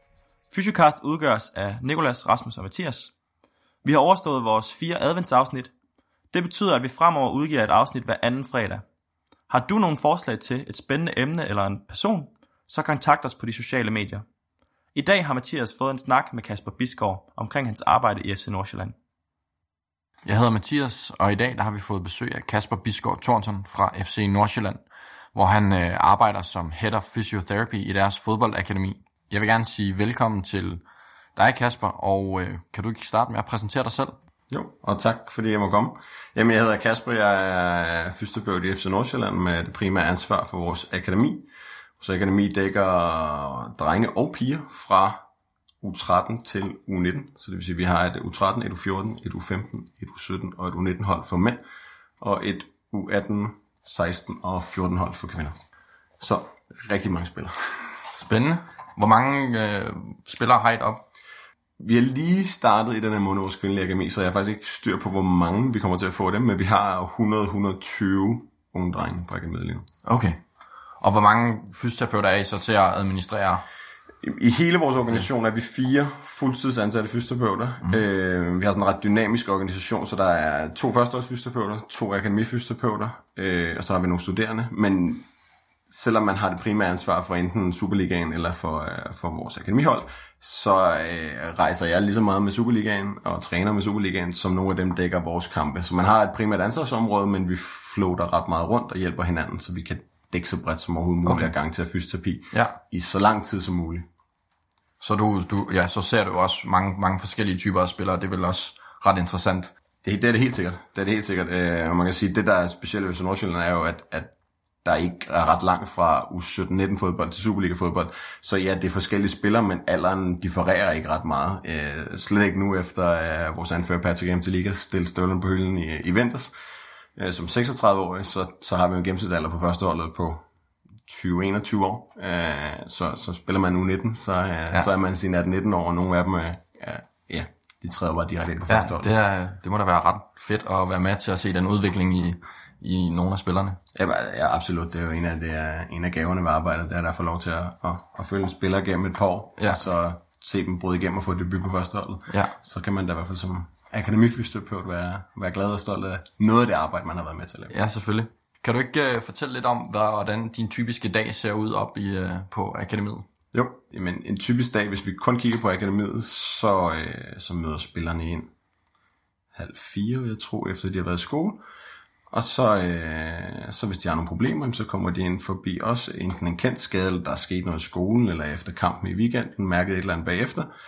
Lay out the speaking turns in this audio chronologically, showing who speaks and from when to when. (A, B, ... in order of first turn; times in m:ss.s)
0:00.5-0:03.1 A
0:03.8-0:05.7 A
0:06.3-0:08.8 A
0:09.5-0:14.2 A
0:14.9-0:19.0 A
0:20.2-0:30.8 B
0:31.4-0:34.2 B
0:34.5-0:41.5 C
0:42.0-0:45.2 C
0:45.8-0:51.6 C
0:52.2-0:55.6 C
0:56.2-0:58.0 C
0:58.1-1:01.0 B
1:01.8-1:09.8 C
1:10.0-1:10.4 B
1:11.0-1:13.6 B
1:14.2-1:25.2 C
1:25.9-1:44.1 C
1:41.2-1:41.5 B
1:45.0-1:49.7 B
1:50.0-1:54.3 C
1:54.8-2:06.5 C
2:07.2-2:10.4 C
2:11.1-2:19.1 C
2:18.7-2:23.8 B
2:24.0-2:37.7 C
2:37.7-2:43.2 B
2:43.5-2:48.5 C
2:49.6-2:51.6 C
2:52.3-3:00.7 C